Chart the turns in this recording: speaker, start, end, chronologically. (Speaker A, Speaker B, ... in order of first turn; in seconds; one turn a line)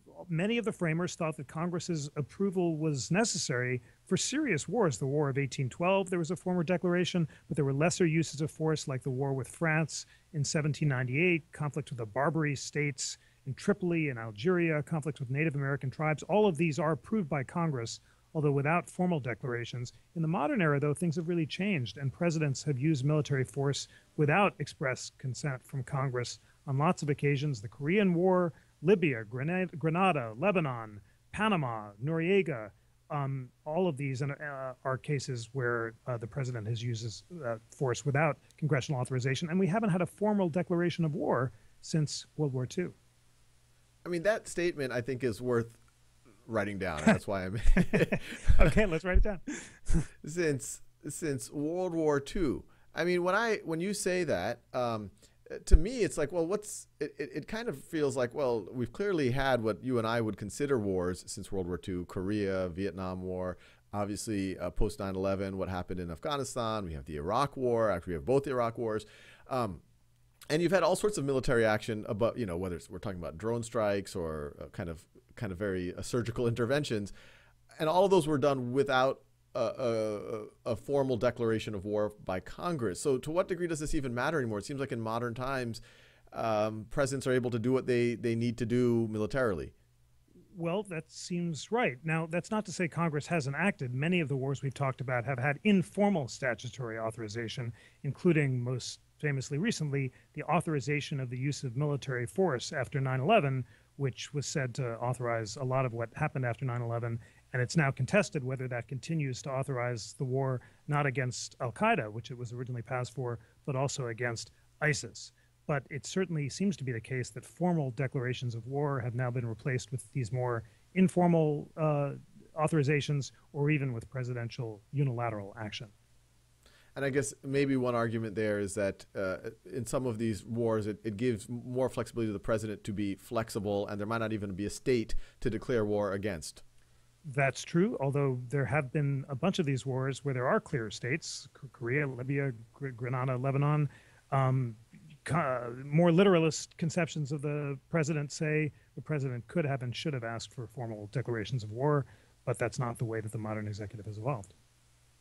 Speaker A: 0.1-42.9
Speaker B: 44.0-45.8
Speaker B: 46.5-48.6
Speaker A: 47.9-50.1
Speaker B: 50.2-69.8
Speaker B: 70.5-77.1
Speaker B: 77.8-89.7
Speaker A: 90.5-125.9
Speaker B: 126.9-136.6
Speaker A: 137.2-154.5